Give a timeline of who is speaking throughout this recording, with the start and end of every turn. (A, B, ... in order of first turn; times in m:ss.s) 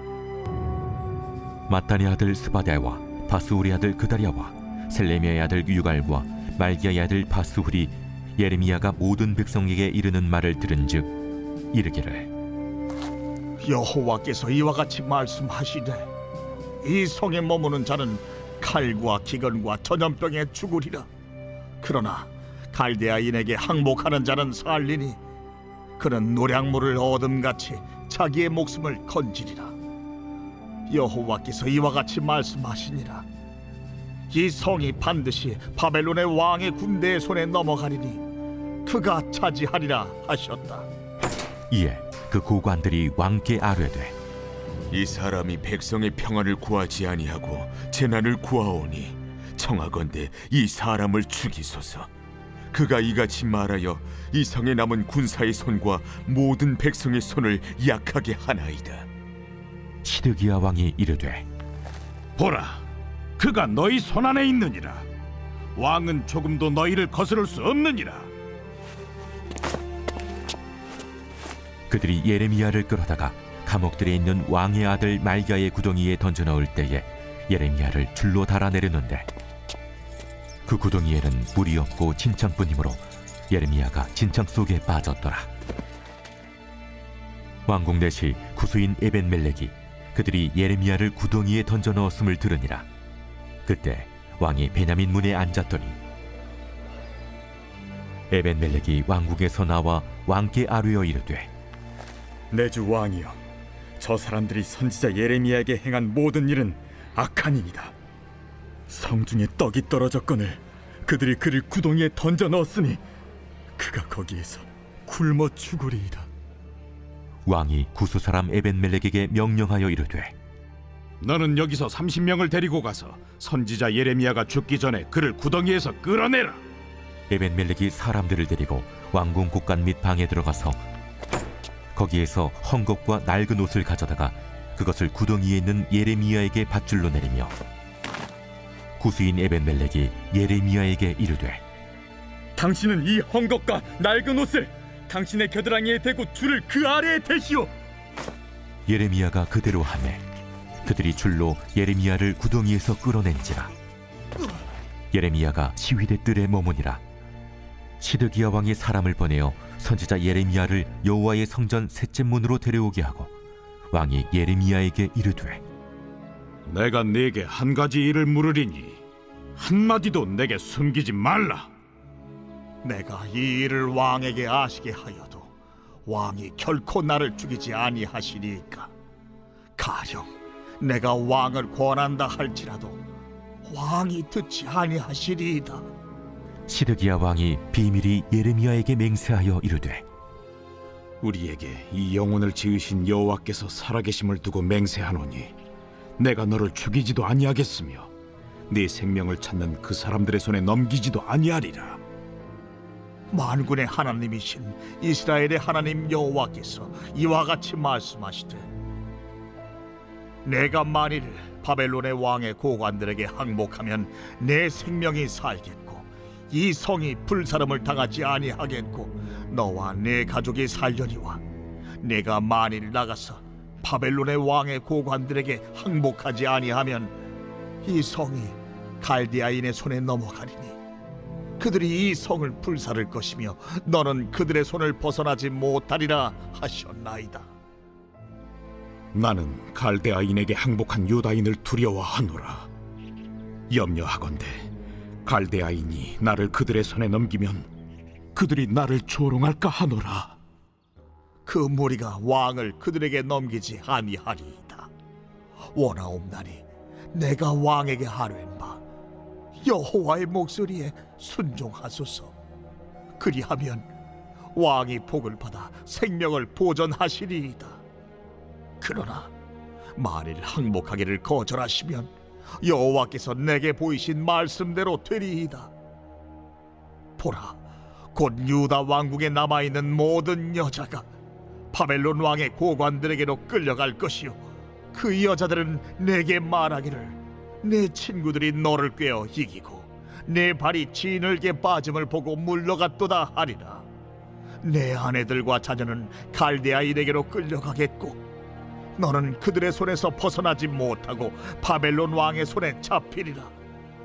0:01.7-0:11.1 A
0:11.7-0:12.3 A
0:13.6-0:16.1 B
0:16.8-0:21.1 B
0:21.8-0:25.2 B
0:26.0-0:29.7 B
0:30.9-0:33.2 B
0:34.3-0:38.2 B
0:38.8-0:40.9 B
0:41.7-0:44.1 A
0:44.9-0:52.1 C
0:52.7-0:59.0 C
1:00.0-1:01.4 A
1:02.4-1:02.8 D
1:03.4-1:05.0 D
1:05.8-1:08.3 D
1:11.9-1:19.3 A
1:20.6-1:25.5 A
1:27.7-1:32.8 A
1:33.6-1:36.0 A
1:38.3-1:41.5 A
1:42.5-1:43.4 E
1:44.0-1:47.9 E
1:48.9-1:53.0 E
1:53.8-1:56.2 E
1:57.4-2:00.3 A
2:01.2-2:06.6 D
2:07.3-2:10.8 A
2:11.9-2:17.5 A
2:19.0-2:21.6 A
2:22.6-2:27.7 E
2:28.9-2:30.2 A
2:30.8-2:33.7 A
2:35.1-2:37.0 A
2:38.0-2:43.3 A
2:43.9-2:45.6 A
2:46.6-2:49.0 D
2:49.6-2:51.7 D
2:52.8-2:55.5 B
2:56.0-2:58.9 B
2:59.8-3:03.0 B
3:03.6-3:05.9 B
3:06.6-3:10.0 A
3:11.2-3:15.5 D
3:16.2-3:18.1 D
3:18.7-3:22.0 D
3:23.3-3:28.7 B
3:30.4-3:41.4 B
3:42.0-3:47.1 B
3:47.8-3:50.8 B
3:51.6-3:57.5 B
3:59.1-4:02.7 D
4:03.7-4:04.7 D
4:05.2-4:07.7 D
4:08.3-4:10.4 D
4:11.4-4:14.9 B
4:15.7-4:18.8 B
4:19.6-4:22.3 B
4:23.2-4:23.9 B
4:24.5-4:27.8 B
4:28.8-4:29.3 B
4:29.9-4:35.7 B
4:37.2-4:37.6 B
4:38.1-4:41.0 B
4:41.7-4:44.4 B
4:44.9-4:53.8 B
4:54.6-4:58.2 B
4:59.0-5:03.5 B